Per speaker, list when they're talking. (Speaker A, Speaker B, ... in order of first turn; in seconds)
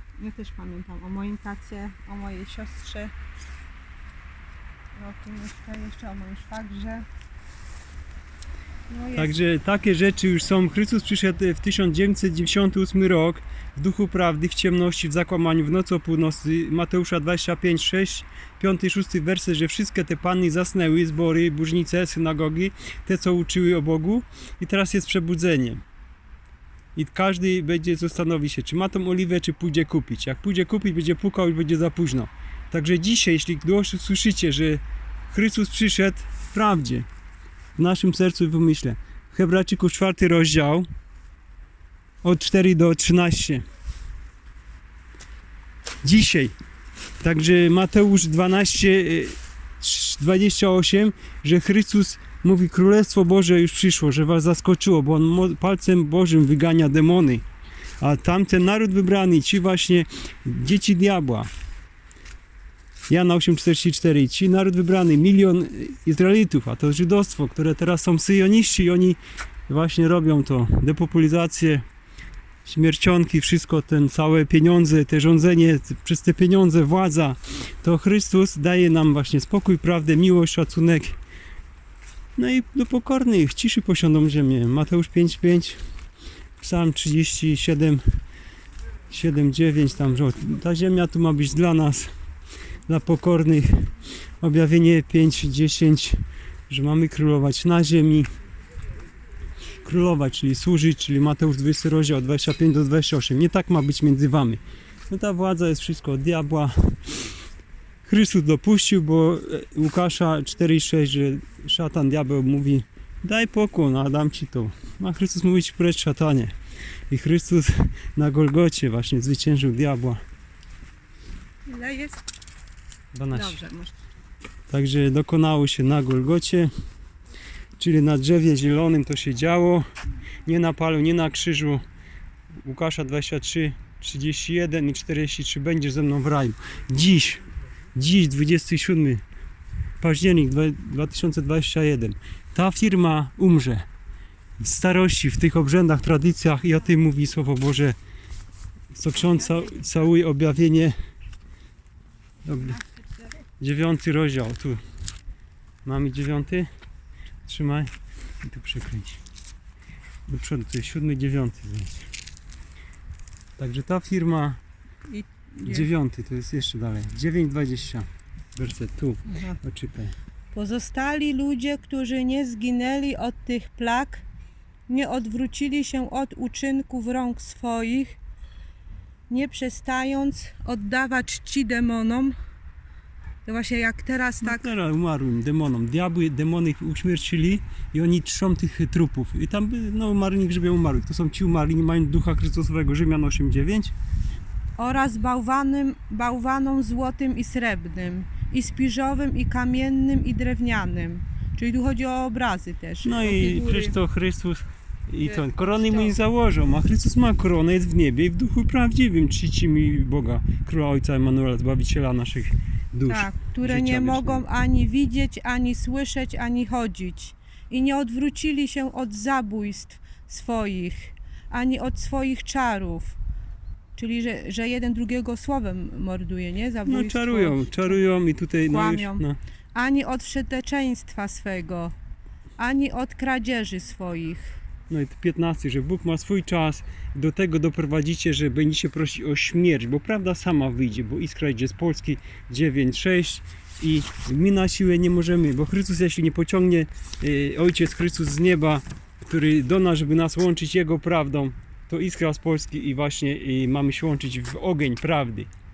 Speaker A: 0.2-3.1, 5.0-7.0, 8.9-9.3, 121.7-122.2, 123.3-124.0, 165.1-165.9, 169.3-169.6, 170.5-174.2, 174.9-178.2, 179.3-182.3, 183.4-184.7, 194.8-203.9, 205.2-206.1, 213.1-223.2, 223.9-228.0, 228.7-229.2, 229.7-231.9, 232.6-234.4
Speaker B: 9.1-25.8, 26.9-37.1, 37.8-40.9, 42.2-43.6, 46.0-46.5, 47.2-57.4, 58.0-61.5, 63.1-71.8, 72.6-81.1, 82.3-85.8, 86.6-88.0, 89.1-92.1, 92.9-98.3, 99.8-107.3, 108.0-116.5, 117.1-120.2, 123.1-123.6, 124.7-126.7, 127.8-129.8, 130.4-131.8, 132.6-139.2, 140.0-143.8, 144.6-148.0, 148.9-150.9, 152.4-152.8, 153.6-154.8, 155.8-156.7, 157.4-157.9, 158.4-159.2, 160.3-162.0, 163.6-164.6, 165.7-168.0, 168.6-170.1, 184.4-193.9, 203.0-214.4, 226.8-229.4, 234.9-255.5